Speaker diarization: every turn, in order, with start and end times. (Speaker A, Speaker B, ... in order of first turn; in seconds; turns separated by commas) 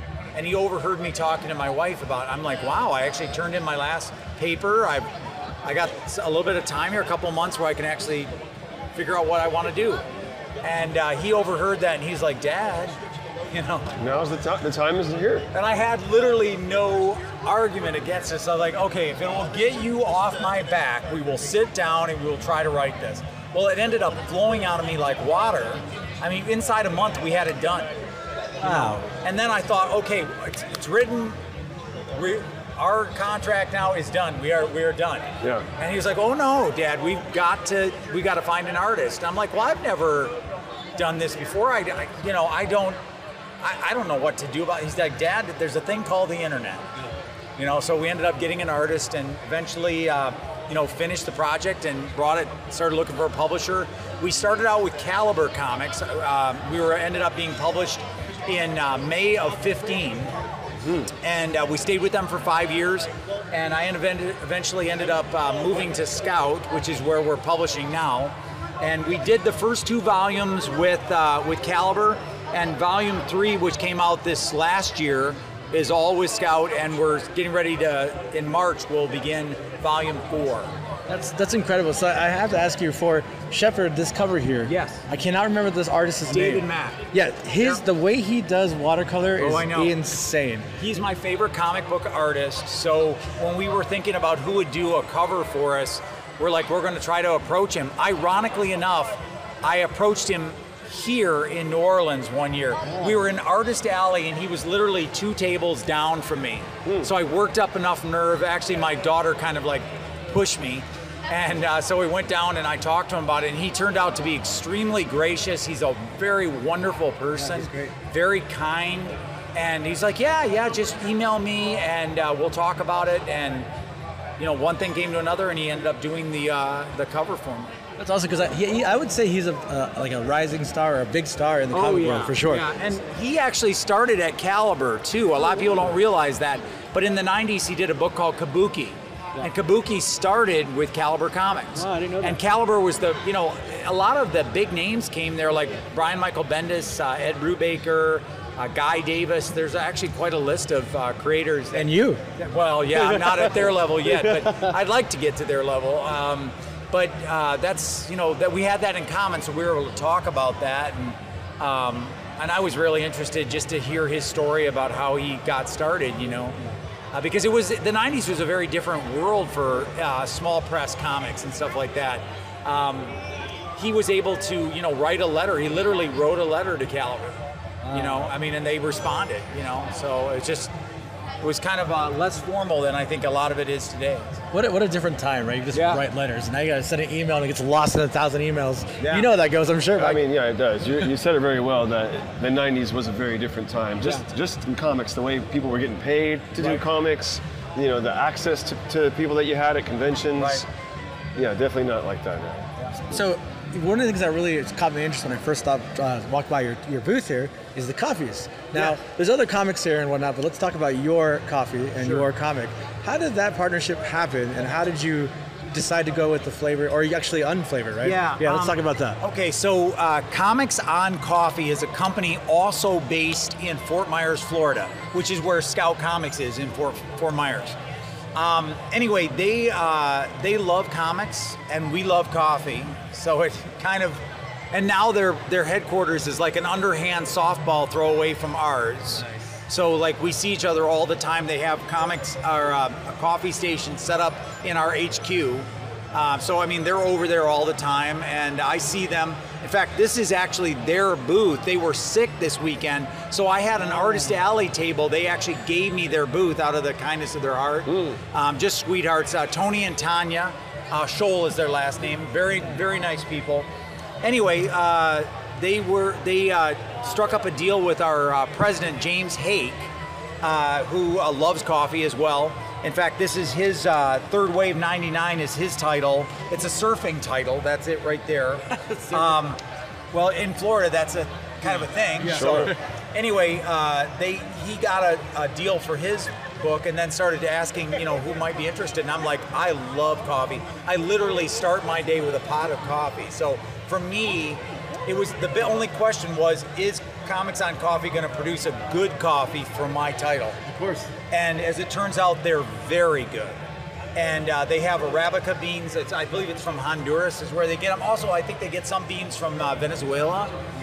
Speaker A: 0.3-5.1, Speaker A: 5.6-8.3, Speaker A: 8.9-10.0, Speaker A: 10.6-12.9, Speaker A: 13.5-13.9, Speaker B: 14.0-15.5, Speaker A: 15.5-28.0, Speaker A: 28.6-31.4, Speaker C: 28.6-29.0, Speaker A: 32.1-40.3, Speaker B: 35.4-35.7, Speaker A: 41.0-43.0, Speaker A: 43.6-46.8, Speaker A: 47.6-60.3, Speaker A: 61.2-80.7, Speaker C: 81.1-90.7, Speaker A: 84.6-85.0, Speaker A: 86.3-87.0, Speaker A: 87.6-87.8, Speaker A: 89.4-90.0, Speaker A: 90.8-123.7, Speaker B: 106.8-107.1, Speaker C: 117.3-117.9, Speaker A: 124.4-127.7, Speaker C: 128.0-132.7, Speaker A: 131.7-166.6, Speaker C: 141.7-142.4, Speaker C: 151.7-152.2, Speaker C: 152.9-154.7, Speaker A: 167.1-173.2, Speaker A: 173.8-177.3, Speaker A: 177.9-180.7, Speaker C: 177.9-178.3, Speaker A: 181.4-184.4, Speaker C: 184.5-190.2, Speaker A: 185.7-186.0, Speaker A: 189.0-189.3, Speaker B: 190.0-200.6, Speaker A: 200.4-200.6, Speaker B: 201.3-202.7, Speaker C: 203.1-219.2, Speaker A: 208.7-209.0, Speaker A: 212.0-212.3, Speaker A: 218.0-227.8, Speaker A: 228.3-234.2, Speaker A: 234.7-263.7, Speaker B: 257.9-258.2, Speaker A: 264.2-269.9, Speaker A: 270.4-279.6, Speaker C: 278.8-279.4, Speaker A: 280.1-300.6, Speaker C: 281.7-282.7, Speaker B: 282.3-282.7, Speaker C: 300.6-301.1, Speaker A: 301.3-303.6, Speaker A: 304.1-310.5